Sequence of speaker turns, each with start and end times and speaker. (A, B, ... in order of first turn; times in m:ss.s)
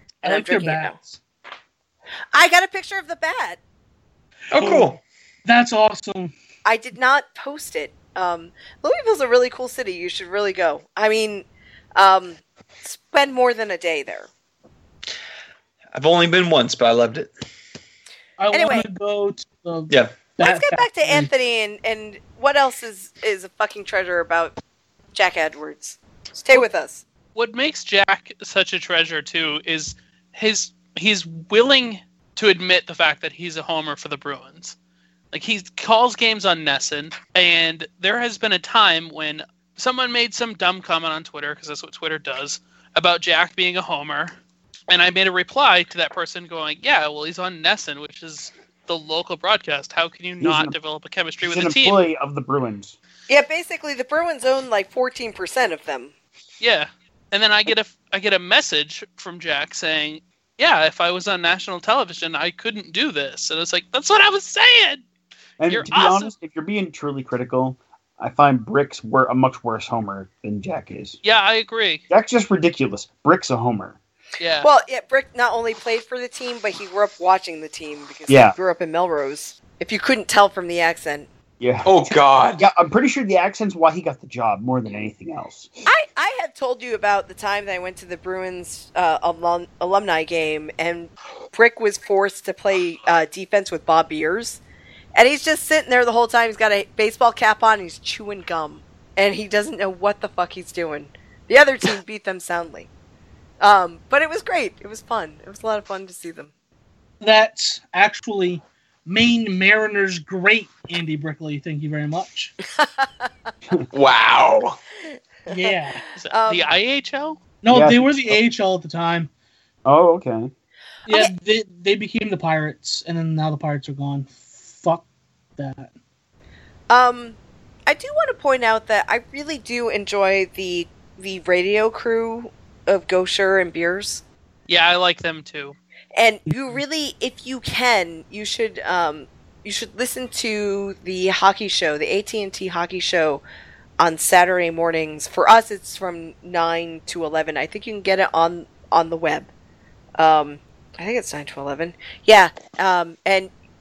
0:00.2-0:01.0 A
0:00.2-0:01.2 B
0:02.3-0:03.6 A
0:04.5-0:05.0 C
0:04.6-0:04.9 B
0:05.4-0:06.3 B
0:06.6-0:14.3 A
0:15.9-0:17.3 C
0:18.4-0:21.3 B
0:18.5-0:18.9 A
0:19.9-0:20.2 C
0:20.4-0:24.6 A
0:25.2-0:27.0 A
0:27.4-0:34.8 D
0:35.3-0:44.4 D
0:44.9-0:52.0 D
0:50.4-0:50.8 E
0:51.4-0:53.0 E
0:53.3-0:56.1 A
0:56.6-1:05.0 D
1:05.6-1:11.2 E
1:05.7-1:06.3 D
1:11.2-1:12.0 D
1:12.1-1:14.0 E
1:14.4-1:14.7 D
1:14.6-1:21.3 A
1:18.3-1:18.6 E
1:21.6-1:25.7 E
1:21.8-1:22.6 C
1:25.9-1:34.6 A
1:35.2-1:42.9 A
1:43.6-1:46.5 A
1:47.2-1:52.5 B
1:52.8-1:53.3 A
1:53.9-1:54.8 C
1:55.5-1:56.0 B
1:55.5-1:56.7 A
1:56.2-1:57.4 D
1:57.6-1:59.3 B
1:57.7-1:58.4 E
1:59.8-2:00.5 E
2:01.1-2:05.0 B
2:01.1-2:01.3 A
2:05.6-2:05.9 B
2:06.9-2:14.2 A
2:14.7-2:15.8 D
2:16.2-2:23.4 A
2:24.0-2:29.5 A
2:30.2-2:33.5 A